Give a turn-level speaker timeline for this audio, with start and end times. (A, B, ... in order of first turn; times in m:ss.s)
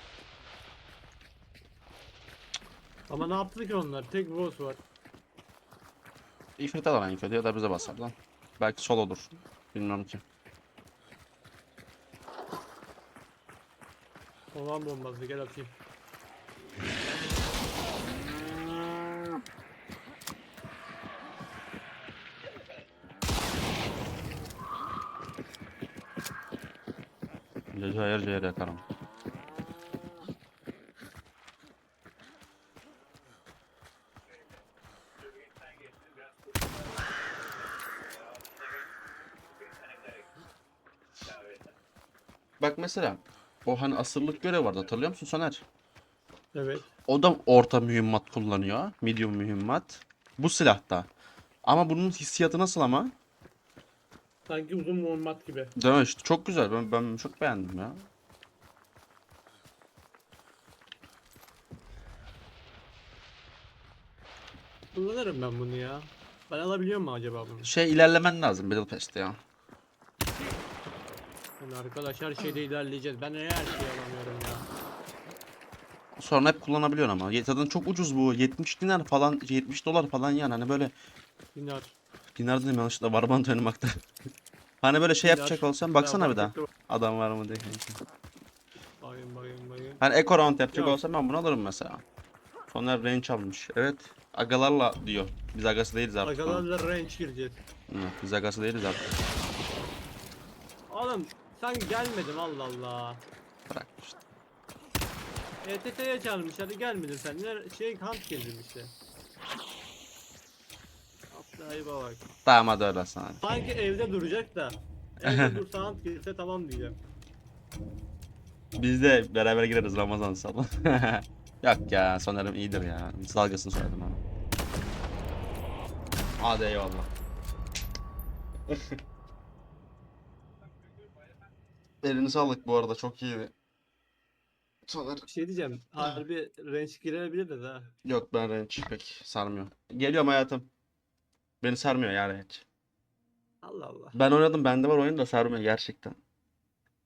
0:03.1-0:04.8 A
0:06.6-0:10.2 B
0:14.5-0:15.7 A
0:27.7-0:28.8 B
0:42.6-0:45.6 B
0:46.5-0:46.9 A
0:47.1-0:51.1 B
0:51.6-0:53.1 B
0:54.5-0:55.7 A
0:55.8-0:58.0 B
1:04.9-1:07.7 A
1:07.6-1:09.4 B
1:11.6-1:14.7 A
1:16.2-1:20.9 B
1:21.5-1:22.0 A
1:22.3-1:24.0 B
1:24.8-1:28.0 B
1:25.2-1:26.7 A
1:29.0-1:30.0 A
1:30.0-1:32.0 B
1:30.7-1:31.0 A
1:32.7-1:36.6 B
1:36.2-1:37.6 A
1:37.9-1:39.1 B
1:40.9-1:43.2 A
1:43.7-1:44.2 B
1:45.6-1:48.9 A
1:51.3-1:52.2 A
1:52.4-1:53.4 B
1:53.4-1:57.0 A
1:55.2-1:55.6 B
1:58.8-2:04.2 B
2:06.4-2:07.1 B
2:08.7-2:09.0 B
2:12.0-2:13.5 B
2:14.8-2:15.3 B
2:15.3-2:17.9 A
2:18.0-2:20.7 B
2:21.6-2:22.6 B
2:23.6-2:24.2 A
2:24.1-2:26.2 B